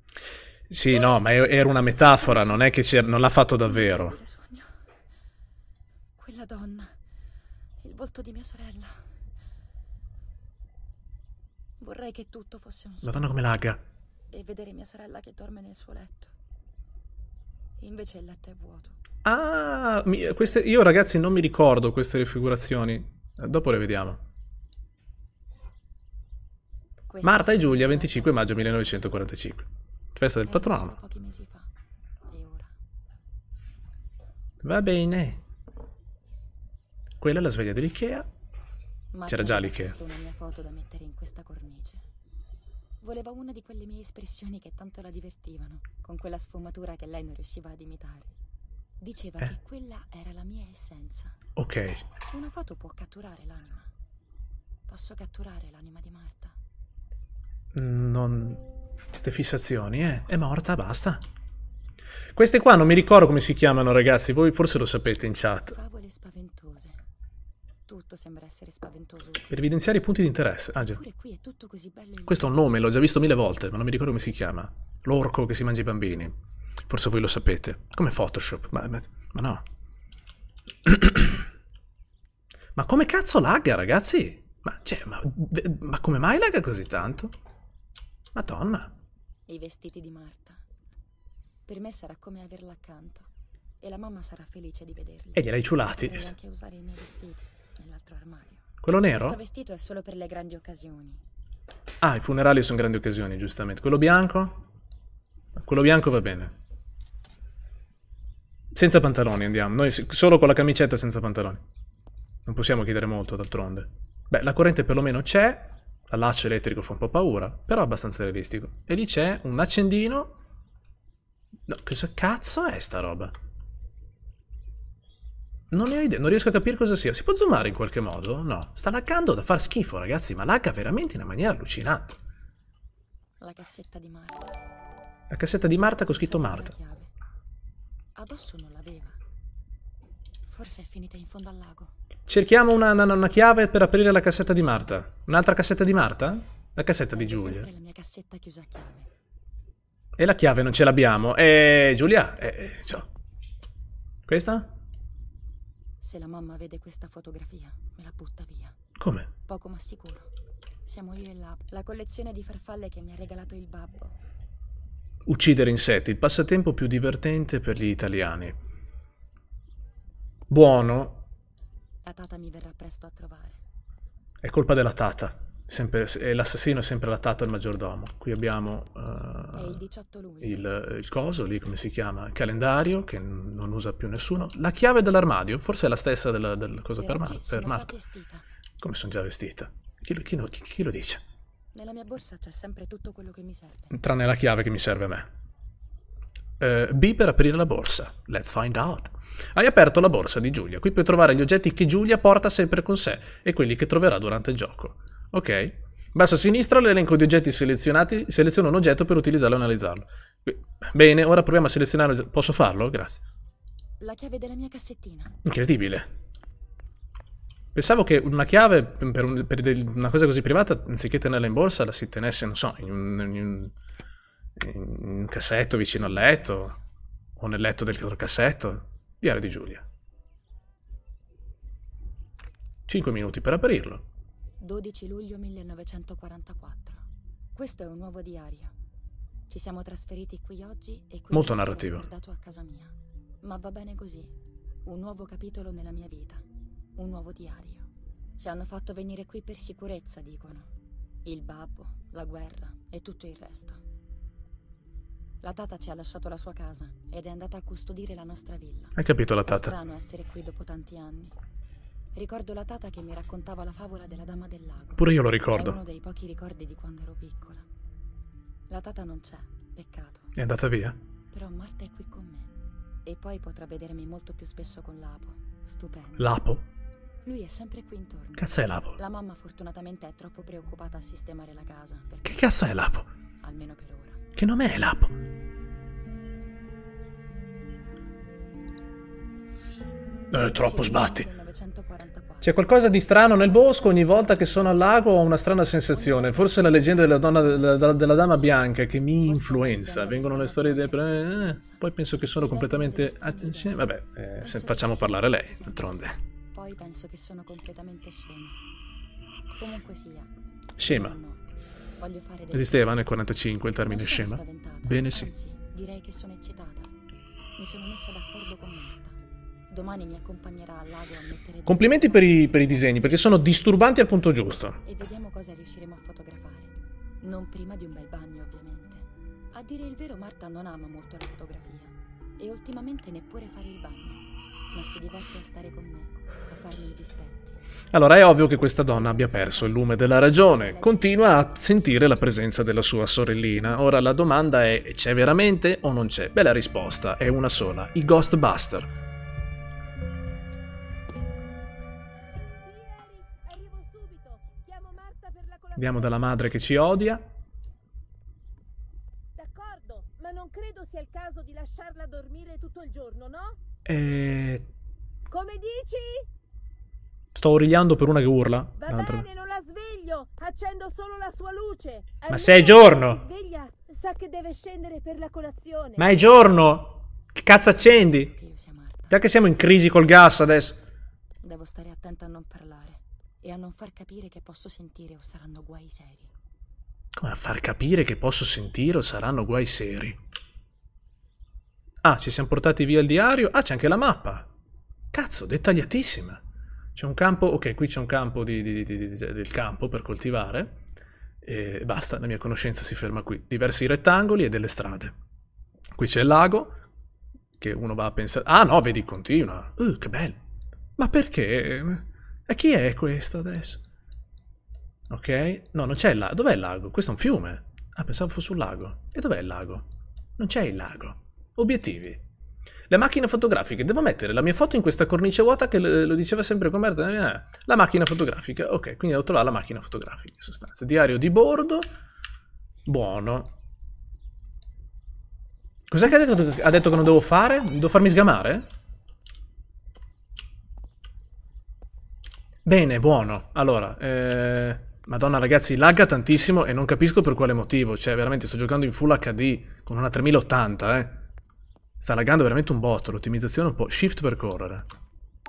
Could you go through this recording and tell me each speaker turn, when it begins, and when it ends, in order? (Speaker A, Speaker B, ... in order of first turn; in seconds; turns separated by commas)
Speaker A: 0.7-4.2, Speaker B: 1.7-2.7, Speaker B: 3.6-4.8, Speaker B: 6.2-7.0, Speaker B: 7.8-9.0, Speaker B: 11.8-13.4, Speaker A: 13.0-13.8, Speaker B: 14.3-16.3, Speaker B: 17.8-19.0, Speaker A: 19.2-24.2, Speaker B: 27.1-29.0, Speaker A: 27.2-30.9, Speaker B: 30.4-31.7, Speaker B: 32.3-32.7, Speaker A: 34.6-35.4, Speaker A: 37.2-38.3, Speaker B: 39.1-42.0, Speaker A: 39.3-40.0, Speaker B: 43.0-48.3, Speaker B: 49.0-51.4, Speaker A: 51.6-52.0, Speaker B: 52.3-53.9, Speaker B: 54.9-56.5, Speaker A: 57.7-61.2, Speaker A: 62.3-65.7, Speaker B: 65.6-67.0, Speaker B: 67.9-69.5, Speaker A: 69.5-71.0, Speaker B: 70.9-72.9, Speaker A: 72.3-76.3, Speaker A: 76.9-79.6, Speaker A: 80.8-81.4, Speaker A: 82.7-87.3, Speaker A: 88.3-88.9, Speaker B: 89.5-90.6, Speaker B: 91.7-93.3, Speaker B: 93.8-101.2, Speaker A: 95.3-96.3, Speaker A: 98.8-99.4, Speaker A: 102.0-104.6, Speaker A: 105.5-106.5, Speaker A: 108.7-111.6, Speaker A: 112.5-120.3, Speaker A: 121.7-123.3, Speaker A: 125.7-132.2, Speaker B: 133.4-134.5, Speaker A: 135.3-136.7, Speaker B: 136.0-137.1, Speaker B: 138.2-139.2, Speaker B: 140.4-141.9, Speaker A: 142.3-147.7, Speaker B: 147.1-149.1, Speaker A: 150.2-153.1, Speaker A: 154.3-154.7, Speaker B: 156.0-158.8, Speaker A: 159.0-159.3, Speaker B: 159.5-160.3, Speaker B: 160.8-164.1, Speaker A: 165.2-168.5, Speaker A: 170.5-171.2, Speaker B: 172.0-173.6, Speaker A: 174.4-179.8, Speaker B: 179.5-180.7, Speaker A: 180.4-187.9, Speaker B: 187.0-188.4, Speaker A: 188.8-191.2, Speaker B: 191.7-194.0, Speaker A: 193.9-195.3, Speaker A: 196.6-213.2, Speaker B: 214.0-215.4, Speaker A: 215.4-216.1, Speaker A: 217.7-223.7, Speaker A: 224.6-226.8, Speaker A: 227.4-229.8, Speaker A: 232.9-234.0, Speaker B: 234.6-237.0, Speaker B: 237.5-238.7, Speaker B: 239.5-244.3, Speaker A: 241.3-242.0, Speaker B: 244.8-246.4, Speaker B: 246.9-250.7, Speaker B: 251.2-253.8, Speaker B: 255.4-261.3, Speaker A: 258.9-259.7, Speaker B: 262.1-267.6, Speaker A: 265.0-265.8, Speaker B: 268.7-270.3, Speaker A: 270.3-271.0, Speaker B: 271.3-272.5, Speaker B: 273.0-276.4, Speaker A: 276.2-276.6, Speaker B: 277.2-282.9, Speaker A: 278.4-279.0, Speaker A: 282.2-283.1, Speaker B: 283.4-284.2, Speaker A: 284.4-285.2, Speaker A: 290.3-291.2, Speaker B: 290.3-292.6, Speaker A: 292.4-306.2, Speaker B: 295.9-301.8, Speaker B: 302.4-308.6, Speaker B: 309.5-311.4, Speaker A: 310.8-311.2, Speaker B: 312.0-313.0, Speaker A: 312.5-315.3, Speaker B: 313.9-316.9, Speaker B: 317.6-319.2, Speaker B: 319.7-323.1, Speaker A: 321.7-324.8, Speaker B: 324.8-337.6, Speaker A: 337.9-348.9, Speaker B: 338.9-344.1, Speaker C: 352.6-355.8, Speaker A: 355.8-357.2, Speaker C: 359.4-363.6, Speaker A: 363.9-364.7, Speaker C: 365.3-366.2, Speaker A: 367.3-369.2, Speaker C: 368.8-372.4, Speaker A: 372.3-373.2, Speaker C: 373.1-376.0, Speaker A: 376.0-378.3, Speaker B: 378.1-379.2, Speaker A: 379.1-380.8, Speaker B: 381.4-386.3, Speaker A: 387.1-390.2, Speaker A: 392.0-394.5, Speaker A: 395.1-396.4, Speaker A: 396.9-400.8, Speaker A: 401.4-405.1, Speaker A: 405.9-406.8, Speaker A: 407.6-410.4, Speaker A: 411.0-413.8, Speaker A: 415.1-419.9, Speaker A: 420.4-422.2, Speaker A: 422.9-431.9, Speaker A: 432.9-433.5, Speaker A: 435.9-438.7, Speaker A: 442.6-451.2, Speaker A: 452.0-454.9